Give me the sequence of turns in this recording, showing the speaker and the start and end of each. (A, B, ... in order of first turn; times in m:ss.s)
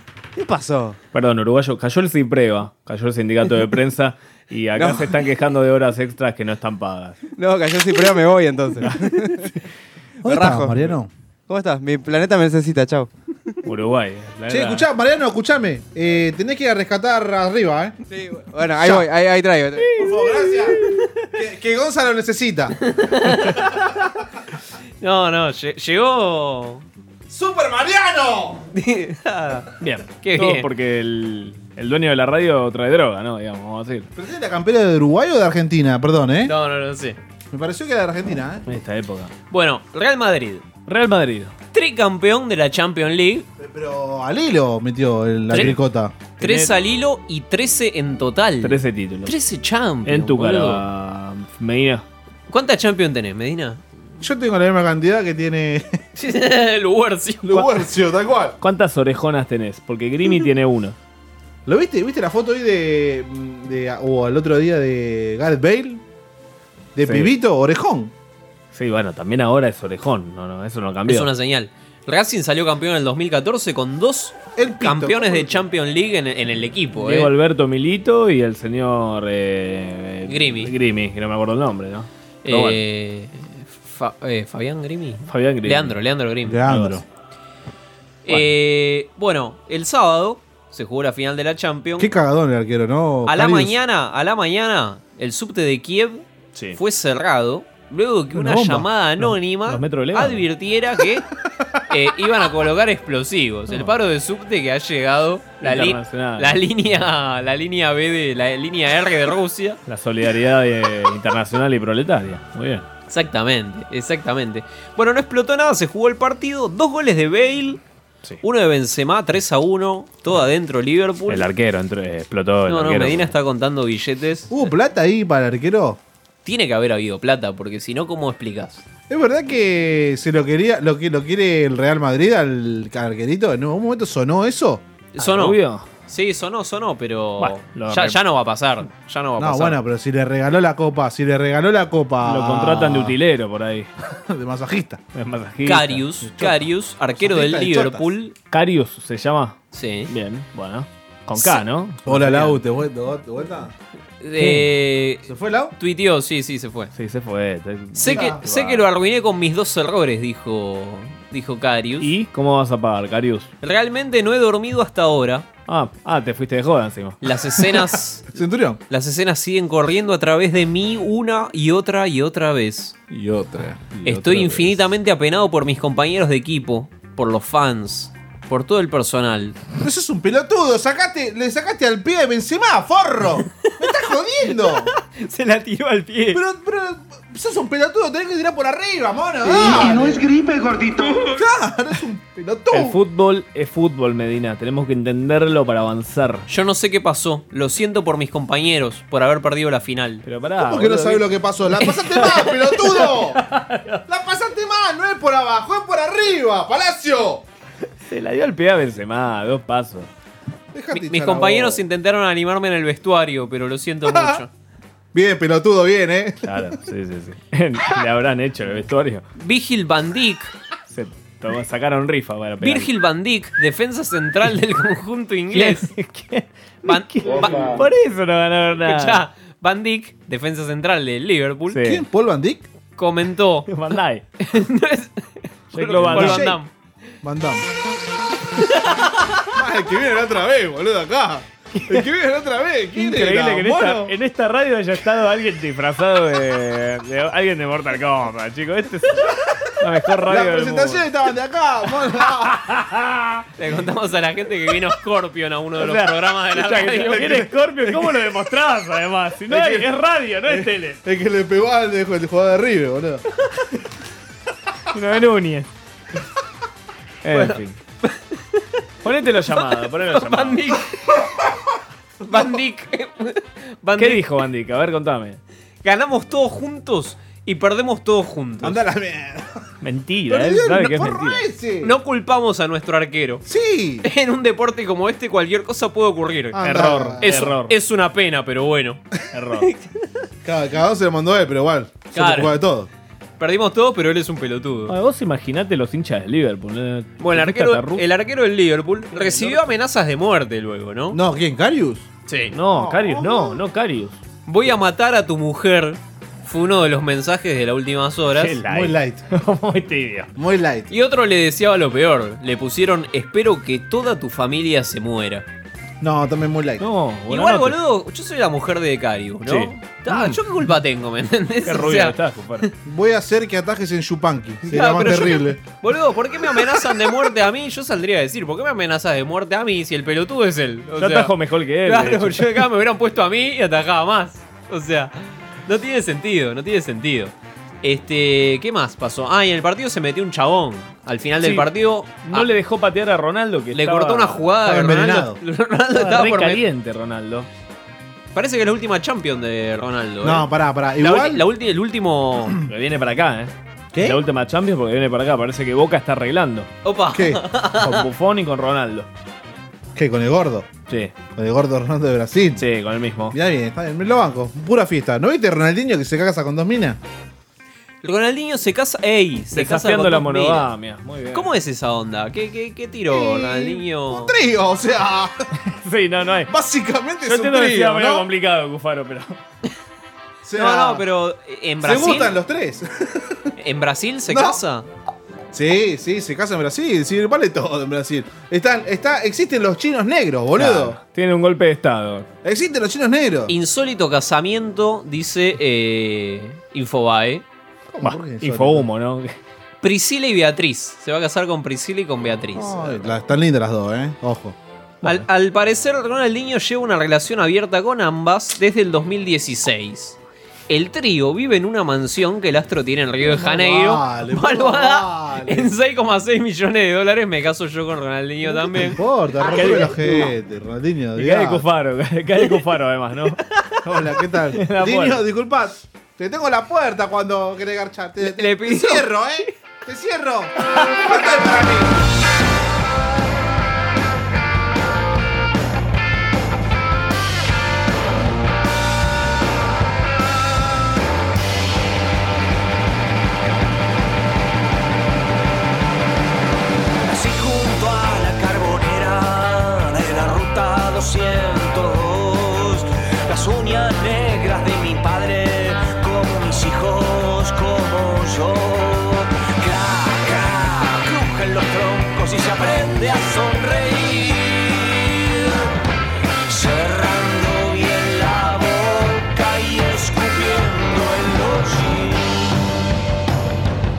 0:00.4-0:01.0 A
0:01.1-0:07.2 B
0:07.4-0:09.5 A
0:10.2-0:10.8 A
0:10.2-0:11.1 C
0:11.5-0:13.1 A
0:13.6-0:14.9 B
0:14.5-0:18.0 C
0:18.1-0:19.9 A
0:18.8-0:19.0 C
0:19.9-0:20.8 C
0:21.3-0:22.8 C
0:22.9-0:23.9 D
0:25.0-0:26.8 D
0:27.3-0:28.6 C
0:28.7-0:30.7 D
0:29.8-0:34.1 B
0:34.1-0:36.5 C
0:36.4-0:37.2 D
0:37.5-0:38.6 C
0:38.7-0:39.3 B
0:39.5-0:40.6 D
0:40.9-0:41.5 B
0:41.7-0:43.4 D
0:43.6-0:46.2 C
0:46.4-0:50.8 D
0:46.4-0:46.7 B
0:48.6-0:49.3 B
0:50.0-0:52.0 B
0:52.5-0:53.8 D
0:54.2-0:56.0 C
0:56.2-0:57.8 D
0:57.4-0:58.6 C
0:58.6-1:01.0 B
1:01.6-1:06.0 C
1:06.9-1:08.1 C
1:07.0-1:07.3 B
1:08.7-1:11.3 B
1:11.1-1:17.3 D
1:14.6-1:15.6 C
1:17.0-1:22.8 B
1:20.3-1:20.7 D
1:22.4-1:26.7 D
1:25.3-1:26.0 B
1:26.4-1:27.0 C
1:26.6-1:27.0 B
1:28.2-1:32.1 D
1:32.0-1:33.7 C
1:33.3-1:41.2 D
1:38.3-1:38.8 C
1:39.2-1:40.4 B
1:41.9-1:49.8 D
1:45.6-1:46.6 B
1:49.9-1:52.8 B
1:53.1-1:57.8 D
1:58.4-2:01.5 D
2:01.3-2:03.3 B
2:02.7-2:04.7 D
2:04.5-2:06.0 C
2:06.4-2:08.8 D
2:09.1-2:14.8 C
2:15.1-2:19.8 D
2:15.2-2:15.9 B
2:17.4-2:18.2 B
2:19.4-2:23.1 C
2:22.2-2:23.9 B
2:24.1-2:25.0 C
2:25.1-2:26.0 B
2:25.6-2:28.3 D
2:26.2-2:28.1 C
2:28.5-2:32.6 B
2:29.7-2:30.1 D
2:32.0-2:33.7 C
2:34.2-2:36.9 D
2:34.4-2:34.7 B
2:35.3-2:35.7 C
2:36.9-2:38.8 B
2:37.9-2:42.1 D
2:38.0-2:38.4 C
2:42.0-2:43.5 B
2:43.6-2:45.5 D
2:45.7-2:47.2 B
2:47.2-2:48.3 D
2:48.3-2:48.8 C
2:48.9-2:53.0 D
2:53.1-2:54.6 C
2:54.0-2:59.6 D
2:59.8-3:04.9 C
3:04.7-3:06.4 D
3:06.3-3:10.3 C
3:11.1-3:13.0 C
3:12.7-3:16.5 B
3:16.5-3:20.2 D
3:20.2-3:21.2 B
3:20.6-3:23.4 C
3:21.8-3:22.4 D
3:22.8-3:24.0 B
3:24.1-3:27.4 C
3:28.1-3:30.1 B
3:30.7-3:31.8 C
3:30.9-3:34.5 D
3:34.0-3:34.4 C
3:35.1-3:36.7 C
3:36.4-3:39.2 B
3:39.4-3:40.5 D
3:40.9-3:42.9 B
3:42.6-3:45.9 D
3:45.5-3:49.2 B
3:46.8-3:47.8 D
3:48.8-3:51.8 D
3:51.7-3:52.0 B
3:51.8-3:52.7 C
3:53.0-3:53.7 D
3:53.7-3:54.2 B
3:54.4-3:56.7 D
3:55.7-3:56.5 B
3:56.1-3:56.6 C
3:57.2-3:57.6 C
3:58.6-3:59.3 D
3:59.5-4:04.1 C
4:03.0-4:11.0 B
4:10.2-4:12.8 C
4:13.6-4:17.4 D
4:15.8-4:21.0 B
4:17.3-4:18.2 C
4:19.5-4:19.9 C
4:20.4-4:23.2 C
4:24.9-4:25.7 B
4:27.2-4:27.8 B
4:27.3-4:28.4 D
4:29.0-4:30.7 B
4:29.7-4:30.9 D
4:32.3-4:32.6 C
4:32.3-4:34.2 D
4:34.0-4:35.4 B
4:35.8-4:38.8 D
4:38.6-4:39.6 C
4:39.8-4:41.4 B
4:40.3-4:42.0 C
4:41.8-4:43.4 D
4:43.4-4:44.1 C
4:44.0-4:49.0 D
4:46.5-4:47.5 C
4:46.6-4:47.7 B
4:49.3-4:49.7 B
4:50.4-4:52.9 C
4:52.1-4:52.6 D
4:53.4-4:54.9 D
4:54.9-4:58.0 B
4:57.2-5:01.2 D
4:59.1-4:59.7 B
5:01.1-5:02.1 C
5:02.3-5:02.5 D
5:02.5-5:04.2 B
5:02.6-5:03.6 C
5:04.5-5:08.6 D
5:08.3-5:10.3 B
5:08.7-5:09.2 C
5:10.4-5:10.9 C
5:10.9-5:15.4 D
5:16.0-5:16.8 C
5:16.8-5:17.8 B
5:17.3-5:22.7 D
5:19.4-5:19.7 B
5:21.6-5:22.7 B
5:22.8-5:25.6 C
5:24.7-5:31.3 D
5:31.0-5:32.6 B
5:31.8-5:35.1 D
5:35.6-5:42.5 D
5:41.4-5:41.7 B
5:42.2-5:44.4 B
5:43.7-5:46.6 D
5:44.6-5:45.4 C
5:45.9-5:47.5 B
5:48.3-5:50.5 D
5:50.2-5:51.4 C
5:51.0-5:52.6 D
5:52.6-5:56.7 B
5:53.9-5:54.2 C
5:56.8-5:58.0 D
5:57.1-5:57.4 C
5:57.8-5:59.1 B
5:59.9-6:00.7 C
6:00.9-6:01.1 B
6:01.3-6:02.6 C
6:02.6-6:03.4 B
6:03.3-6:07.0 C
6:08.0-6:10.6 D
6:09.5-6:11.5 B
6:11.3-6:14.3 D
6:13.1-6:15.3 C
6:15.6-6:16.5 B
6:16.5-6:18.3 C
6:17.2-6:19.4 B
6:20.4-6:21.0 C
6:20.6-6:22.3 D
6:21.8-6:23.5 C
6:23.6-6:24.9 D
6:24.3-6:24.6 C
6:25.5-6:31.0 C
6:30.6-6:32.3 B
6:32.4-6:33.5 C
6:33.5-6:37.4 D
6:37.9-6:38.9 C
6:38.0-6:39.3 B
6:39.8-6:43.1 D
6:42.5-6:45.2 C
6:45.0-6:50.2 D
6:50.7-6:59.0 D
6:53.2-6:55.7 C
6:58.5-7:01.6 C
6:59.4-7:00.3 B
6:59.5-6:59.9 D
7:01.2-7:03.4 B
7:03.8-7:11.9 C
7:04.6-7:05.2 B
7:08.2-7:09.1 D
7:27.1-7:45.6 E
7:46.5-7:52.6 E